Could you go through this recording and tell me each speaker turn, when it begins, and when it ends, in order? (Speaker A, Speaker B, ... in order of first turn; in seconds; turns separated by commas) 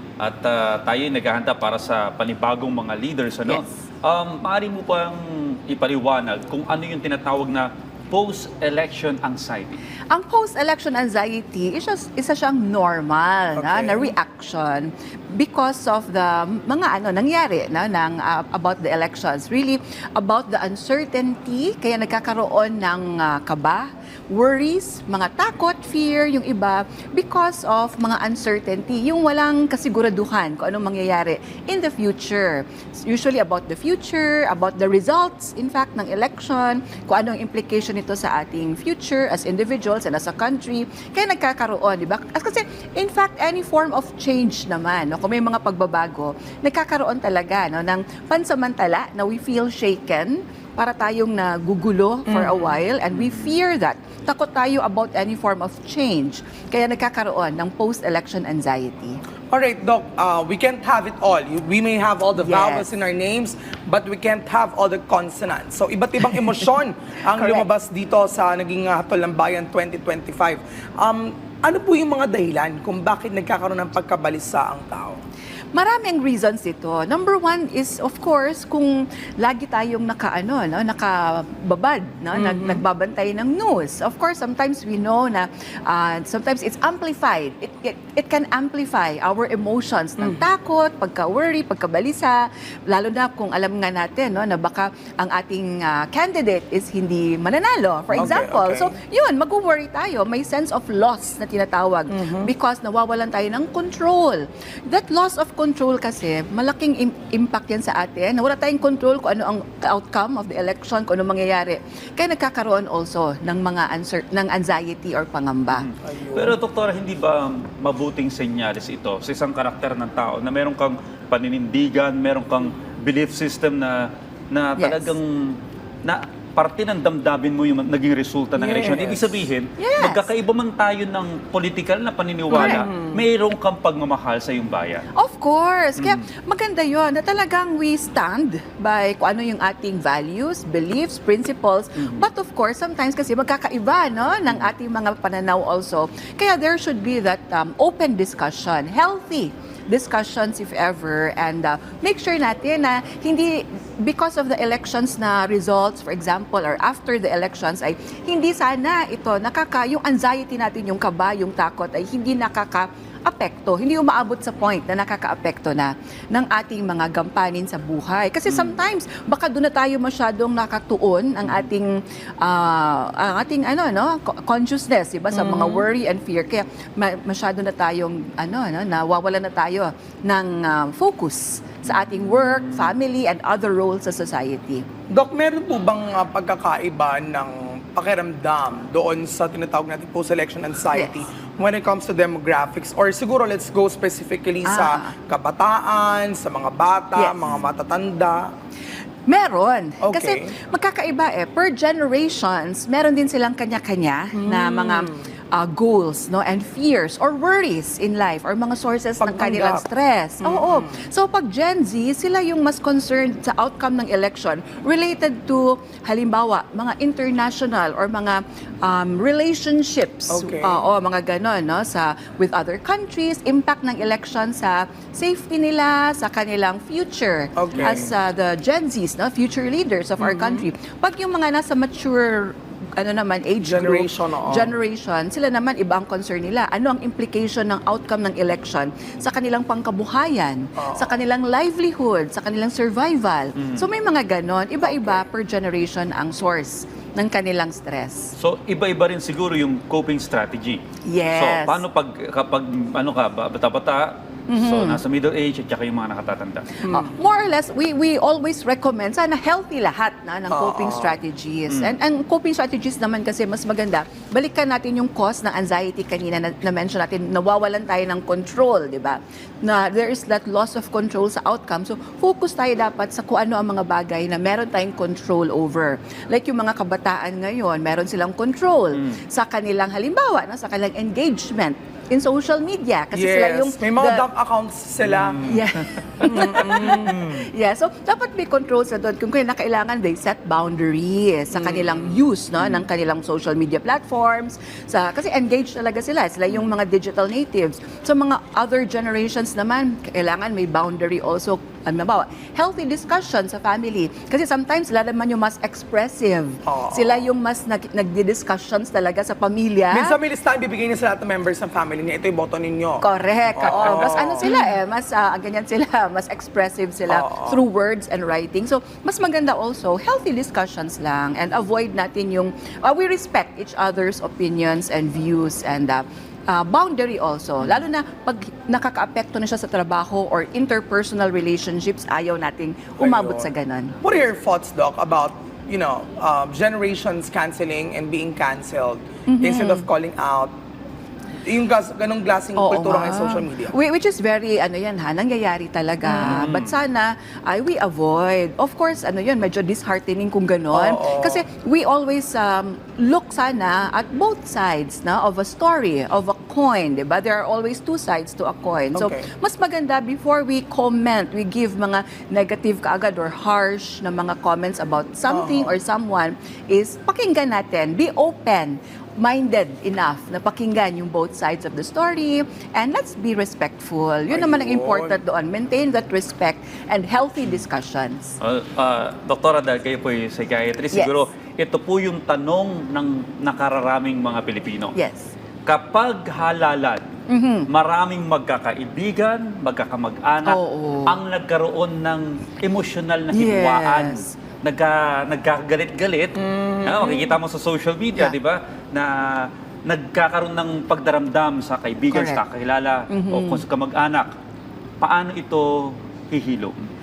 Speaker A: 0.2-9.8, Speaker B: 10.1-59.2, Speaker C: 13.6-14.2, Speaker C: 52.3-52.8, Speaker A: 53.2-53.5, Speaker C: 59.5-75.2, Speaker B: 62.4-62.9, Speaker B: 67.3-67.7, Speaker B: 75.7-115.9, Speaker C: 82.3-82.8, Speaker C: 98.1-99.0, Speaker C: 102.1-102.5, Speaker A: 115.7-135.1, Speaker C: 116.0-116.6, Speaker B: 124.8-125.2, Speaker C: 128.6-129.4, Speaker B: 129.8-130.3, Speaker B: 132.5-132.9, Speaker C: 132.5-133.2, Speaker B: 135.2-184.8, Speaker A: 168.5-168.8, Speaker C: 175.3-175.8, Speaker C: 185.1-198.5, Speaker B: 194.7-195.1, Speaker B: 199.3-248.3, Speaker C: 200.0-200.5, Speaker C: 204.3-205.3, Speaker C: 209.2-209.8, Speaker C: 210.4-211.1, Speaker C: 220.3-220.8, Speaker C: 227.6-228.1, Speaker C: 230.2-230.7, Speaker C: 233.6-234.8, Speaker C: 240.8-241.2, Speaker A: 243.6-243.8, Speaker C: 244.8-245.2, Speaker A: 248.4-250.8, Speaker B: 251.1-251.8, Speaker A: 251.3-256.7, Speaker B: 254.5-255.0, Speaker B: 256.8-284.2, Speaker C: 260.5-261.2, Speaker A: 261.7-261.9, Speaker C: 283.1-285.5, Speaker A: 285.1-285.6, Speaker B: 285.4-310.2, Speaker C: 286.2-287.4, Speaker C: 291.5-292.0, Speaker C: 306.6-307.2, Speaker C: 309.9-314.6, Speaker B: 313.0-334.0, Speaker C: 317.1-317.6, Speaker C: 333.0-333.5, Speaker C: 334.0-340.5, Speaker B: 339.3-339.9, Speaker C: 341.4-343.7, Speaker B: 342.6-378.4, Speaker A: 346.2-346.7, Speaker C: 350.7-351.4, Speaker C: 358.9-359.2, Speaker C: 365.3-365.7, Speaker C: 374.3-375.2, Speaker A: 378.4-384.9, Speaker B: 384.9-385.3, Speaker A: 385.7-387.1, Speaker B: 387.3-387.7, Speaker A: 387.7-404.3, Speaker B: 390.5-391.2, Speaker B: 393.3-394.3, Speaker C: 396.4-397.4, Speaker B: 402.1-402.4, Speaker B: 403.1-403.6, Speaker A: 405.0-406.8